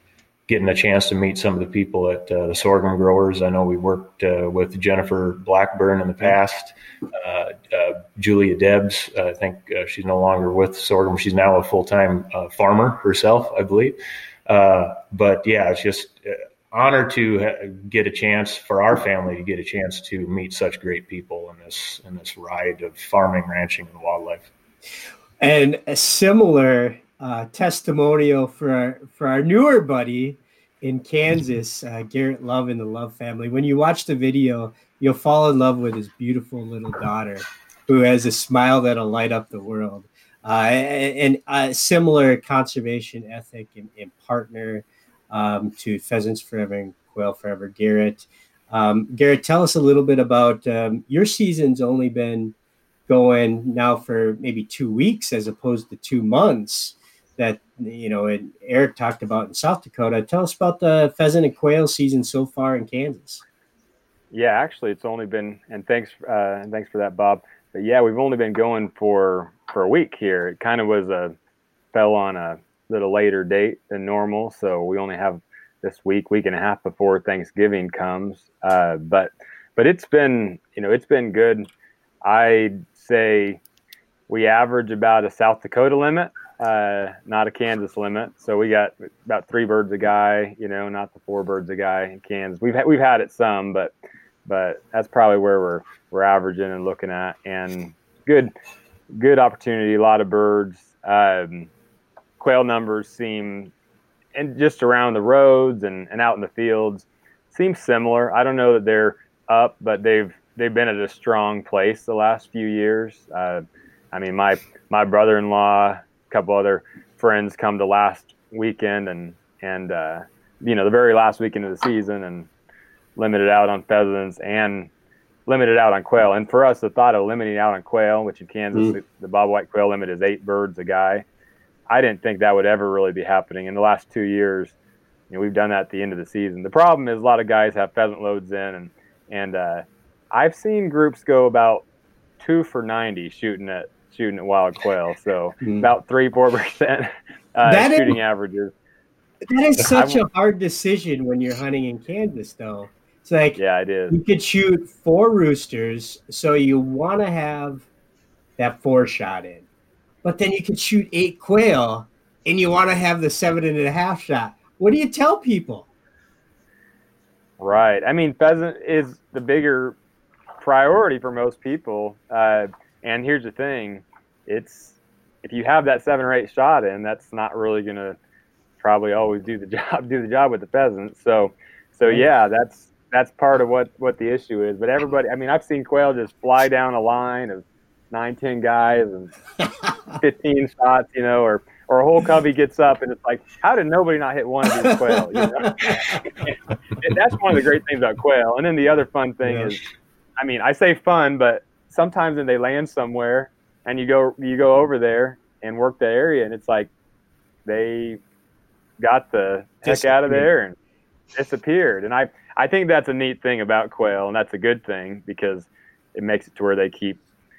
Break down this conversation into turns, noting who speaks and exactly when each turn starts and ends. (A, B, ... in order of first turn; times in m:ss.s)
0:00.5-0:24.5 A
0:25.4-0:52.5 B
0:53.1-1:03.4 B
1:04.3-1:11.3 C
1:11.9-1:21.7 C
1:22.2-1:23.6 C
1:24.3-1:33.9 C
1:34.4-1:38.5 C
1:39.1-1:41.7 C
1:42.4-1:43.7 C
1:44.3-2:02.5 C
2:03.2-2:04.9 C
2:05.4-2:11.2 C
2:11.9-2:14.7 C
2:15.3-2:21.8 C
2:22.4-2:28.7 C
2:27.6-2:28.2 B
2:29.5-2:33.6 B
2:29.8-2:30.2 C
2:33.6-2:34.2 C
2:34.1-2:37.9 B
2:38.6-2:39.6 B
2:40.2-2:45.9 B
2:47.6-2:50.0 C
2:50.6-2:58.2 C
2:58.8-3:09.3 C
3:10.2-3:19.8 C
3:20.4-3:26.9 C
3:27.6-3:28.2 C
3:29.0-3:30.7 C
3:29.8-3:30.5 B
3:31.3-3:37.2 C